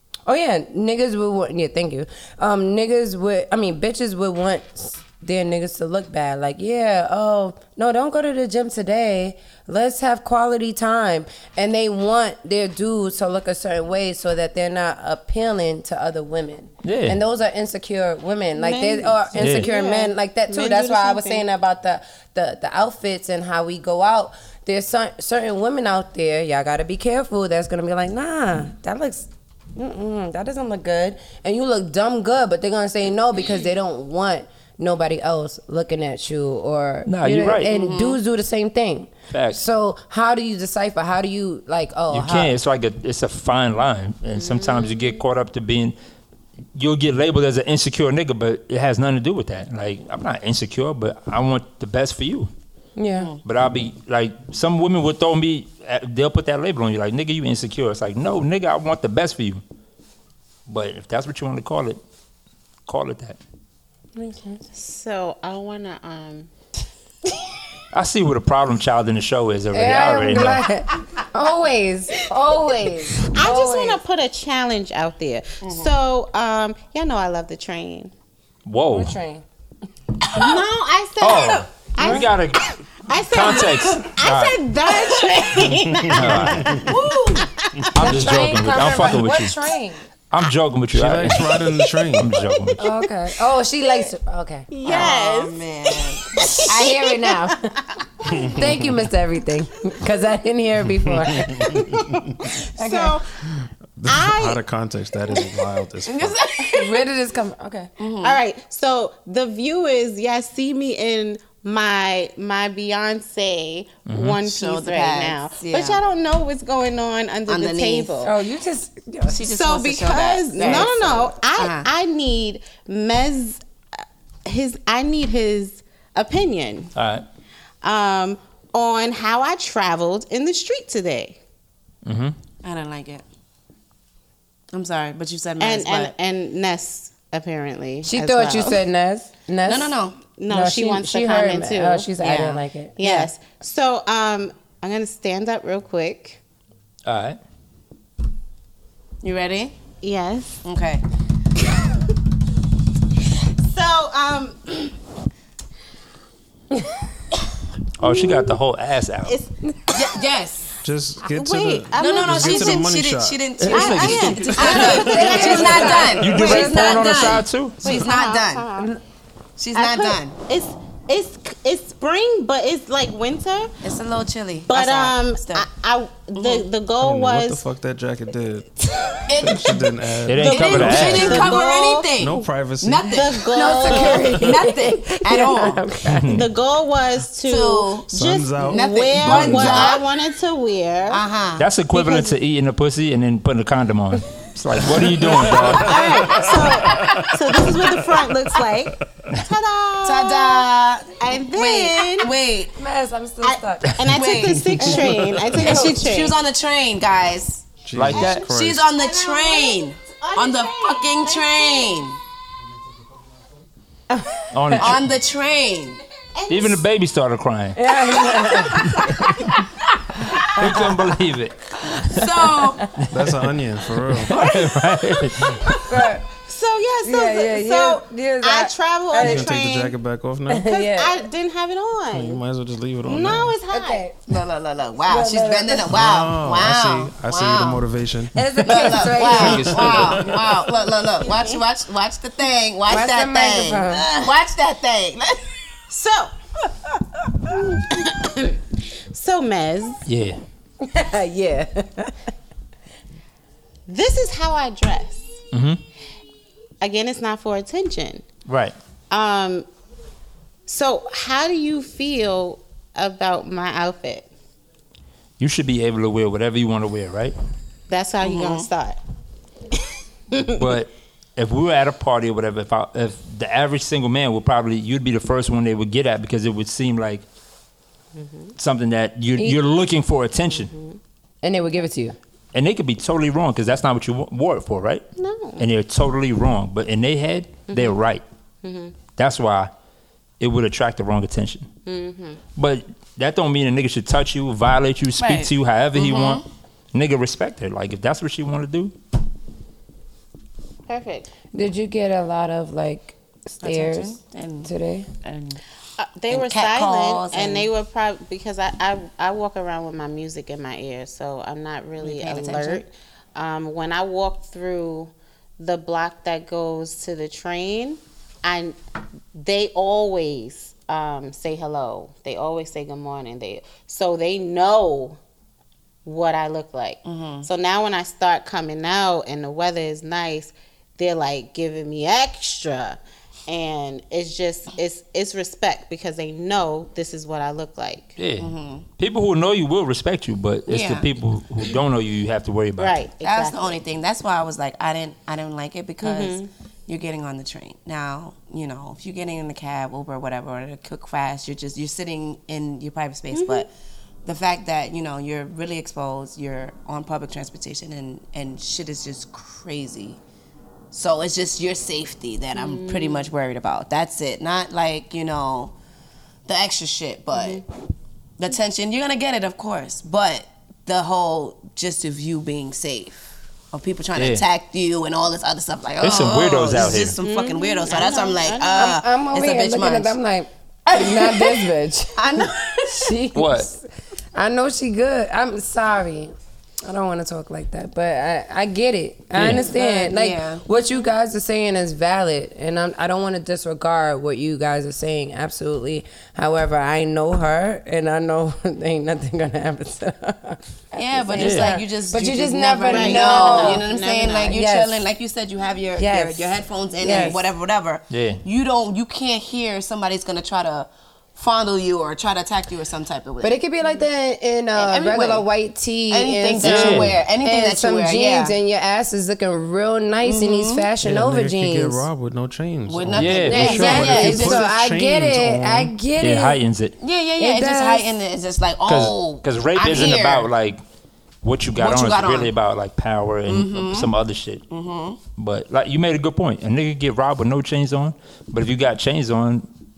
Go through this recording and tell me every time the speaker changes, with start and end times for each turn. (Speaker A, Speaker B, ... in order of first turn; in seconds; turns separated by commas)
Speaker A: 0.2-42.5, Speaker B: 16.8-17.2, Speaker C: 18.6-21.4, Speaker B: 19.4-19.7, Speaker B: 37.0-37.7, Speaker D: 37.6-38.2, Speaker B: 39.3-39.6, Speaker B: 42.1-45.9, Speaker C: 44.4-45.2, Speaker B: 46.7-52.5, Speaker A: 53.0-53.3, Speaker B: 53.4-59.6, Speaker B: 60.7-62.0, Speaker B: 62.9-63.4, Speaker A: 64.2-64.6, Speaker C: 64.7-66.5, Speaker B: 67.9-70.6, Speaker A: 69.7-74.0, Speaker C: 73.2-78.1, Speaker D: 75.6-75.9, Speaker B: 78.7-79.2, Speaker A: 78.9-79.4, Speaker D: 80.2-80.6, Speaker C: 80.3-82.5, Speaker B: 81.2-84.6, Speaker C: 83.0-87.9, Speaker D: 84.9-85.4, Speaker E: 85.7-86.9, Speaker B: 86.1-86.8, Speaker D: 86.8-87.5, Speaker B: 87.9-89.5, Speaker A: 87.9-90.0, Speaker B: 90.3-92.8, Speaker E: 90.9-92.3, Speaker A: 92.8-95.1, Speaker C: 94.7-97.0, Speaker D: 94.8-96.9, Speaker A: 96.6-101.9, Speaker E: 98.3-99.0, Speaker E: 101.0-102.3, Speaker C: 101.7-103.3, Speaker A: 102.8-103.2, Speaker E: 103.5-106.4, Speaker C: 104.0-104.6, Speaker D: 106.0-107.0, Speaker A: 106.6-107.9, Speaker D: 108.0-108.4, Speaker C: 108.2-118.3, Speaker B: 114.1-114.4, Speaker D: 114.5-116.0, Speaker D: 117.5-118.2, Speaker A: 118.2-119.4, Speaker D: 119.3-121.0, Speaker C: 119.4-123.6, Speaker A: 120.6-121.3, Speaker D: 121.5-121.9, Speaker C: 124.4-126.9, Speaker B: 126.9-127.2, Speaker C: 127.8-131.4, Speaker B: 132.0-132.3, Speaker D: 132.6-133.2, Speaker D: 134.7-136.1, Speaker C: 135.6-138.8, Speaker A: 138.0-140.0, Speaker D: 139.7-140.2, Speaker C: 140.4-142.1, Speaker A: 140.5-143.3, Speaker D: 142.2-142.6, Speaker C: 143.0-146.4, Speaker B: 147.0-147.4, Speaker D: 149.2-149.7, Speaker C: 150.0-150.6, Speaker D: 150.6-151.0, Speaker C: 153.6-154.9, Speaker B: 158.0-159.4, Speaker C: 159.2-160.2, Speaker D: 159.9-160.8, Speaker E: 160.8-163.5, Speaker C: 161.2-162.8, Speaker D: 162.0-168.7, Speaker B: 163.6-164.9, Speaker C: 163.7-166.2, Speaker E: 164.4-165.1, Speaker A: 164.6-167.2, Speaker E: 165.7-166.5, Speaker B: 166.2-167.8, Speaker C: 167.8-168.9, Speaker D: 169.6-170.3, Speaker C: 169.7-173.7, Speaker D: 173.8-175.7, Speaker C: 174.7-177.6, Speaker D: 176.3-176.7, Speaker E: 177.0-178.8, Speaker D: 179.3-185.8, Speaker E: 179.4-183.2, Speaker B: 180.2-181.6, Speaker C: 180.4-182.1, Speaker C: 183.1-184.4, Speaker A: 183.5-186.4, Speaker B: 186.1-186.5, Speaker C: 186.3-191.2, Speaker D: 187.4-188.1, Speaker E: 188.1-190.0, Speaker D: 188.6-190.0, Speaker D: 191.1-191.7, Speaker B: 191.6-196.2, Speaker C: 191.9-192.3, Speaker E: 194.8-198.4, Speaker C: 195.7-202.3, Speaker E: 198.9-199.2, Speaker D: 200.0-202.7, Speaker A: 202.7-203.9, Speaker C: 203.4-206.4, Speaker D: 204.1-207.7, Speaker E: 204.8-205.5, Speaker E: 207.8-208.9, Speaker B: 207.9-208.4, Speaker C: 208.1-212.1, Speaker D: 208.4-212.2, Speaker B: 214.5-215.1, Speaker D: 214.8-216.0, Speaker C: 216.3-216.8, Speaker B: 216.5-217.8, Speaker A: 217.8-219.1, Speaker C: 218.4-219.2, Speaker B: 218.8-219.2, Speaker B: 220.4-222.5, Speaker A: 220.6-220.9, Speaker D: 222.1-223.0, Speaker B: 223.0-223.3, Speaker E: 223.1-224.3, Speaker B: 224.0-225.8, Speaker A: 225.7-226.2, Speaker C: 226.4-229.9, Speaker A: 227.0-229.5, Speaker E: 229.2-230.7, Speaker A: 230.5-231.2, Speaker C: 230.6-232.4, Speaker E: 232.1-233.6, Speaker C: 233.0-234.0, Speaker A: 233.7-234.4, Speaker D: 234.3-237.8, Speaker A: 235.1-236.1, Speaker E: 235.9-240.7, Speaker A: 238.3-240.2, Speaker D: 238.6-245.5, Speaker C: 241.2-241.6, Speaker A: 242.9-244.3, Speaker C: 245.9-246.3, Speaker C: 247.5-250.0, Speaker B: 250.0-250.4, Speaker A: 250.8-252.1, Speaker C: 253.9-255.4, Speaker B: 255.5-255.8, Speaker C: 256.8-258.2, Speaker B: 258.4-258.7, Speaker C: 259.1-259.6, Speaker C: 260.7-264.3, Speaker B: 265.4-267.3, Speaker C: 267.9-269.0, Speaker D: 268.2-268.7, Speaker C: 270.3-270.6, Speaker B: 270.5-277.2, Speaker C: 278.1-278.5, Speaker B: 278.6-280.7, Speaker C: 280.5-281.0, Speaker A: 281.4-282.2, Speaker B: 282.5-285.0, Speaker C: 285.2-285.7, Speaker B: 285.6-288.2, Speaker C: 287.7-288.0, Speaker C: 288.6-288.9, Speaker B: 289.2-289.7, Speaker B: 290.4-291.7, Speaker C: 291.9-292.4, Speaker B: 292.6-298.9, Speaker D: 295.2-296.4, Speaker C: 300.9-301.3, Speaker A: 301.5-305.1, Speaker D: 303.6-304.7, Speaker D: 305.2-305.6, Speaker C: 306.0-318.8, Speaker D: 306.3-307.7, Speaker D: 312.0-312.8, Speaker C: 319.3-325.2, Speaker C: 326.0-338.1, Speaker D: 327.1-327.5, Speaker B: 338.2-343.0, Speaker D: 338.4-338.9, Speaker D: 340.7-341.1, Speaker C: 342.8-343.8, Speaker D: 343.2-353.7, Speaker C: 346.0-346.5, Speaker C: 353.3-353.7, Speaker D: 354.2-360.2, Speaker D: 360.9-365.7, Speaker C: 362.5-363.3, Speaker D: 366.5-367.6, Speaker C: 367.3-367.6, Speaker D: 368.4-380.1, Speaker B: 374.1-374.4, Speaker B: 376.0-377.2, Speaker C: 377.2-379.0, Speaker A: 378.7-403.9, Speaker D: 380.9-383.1, Speaker B: 383.3-383.7, Speaker B: 389.3-389.6, Speaker D: 389.5-390.6, Speaker D: 400.9-413.6, Speaker B: 401.4-401.8, Speaker C: 402.9-404.6, Speaker A: 404.5-405.0, Speaker A: 406.0-407.4, Speaker B: 408.1-408.4, Speaker A: 413.4-422.1, Speaker D: 414.8-415.4, Speaker D: 416.1-418.6, Speaker B: 416.6-417.2, Speaker D: 420.2-420.9, Speaker E: 421.0-425.9, Speaker D: 422.9-424.7, Speaker B: 423.1-424.2, Speaker A: 423.4-426.6, Speaker B: 426.2-426.9, Speaker D: 427.0-430.5, Speaker A: 427.4-428.2, Speaker B: 428.8-430.8, Speaker B: 431.4-434.6, Speaker D: 431.8-432.5, Speaker D: 433.4-434.1, Speaker D: 434.7-435.2, Speaker B: 435.4-439.7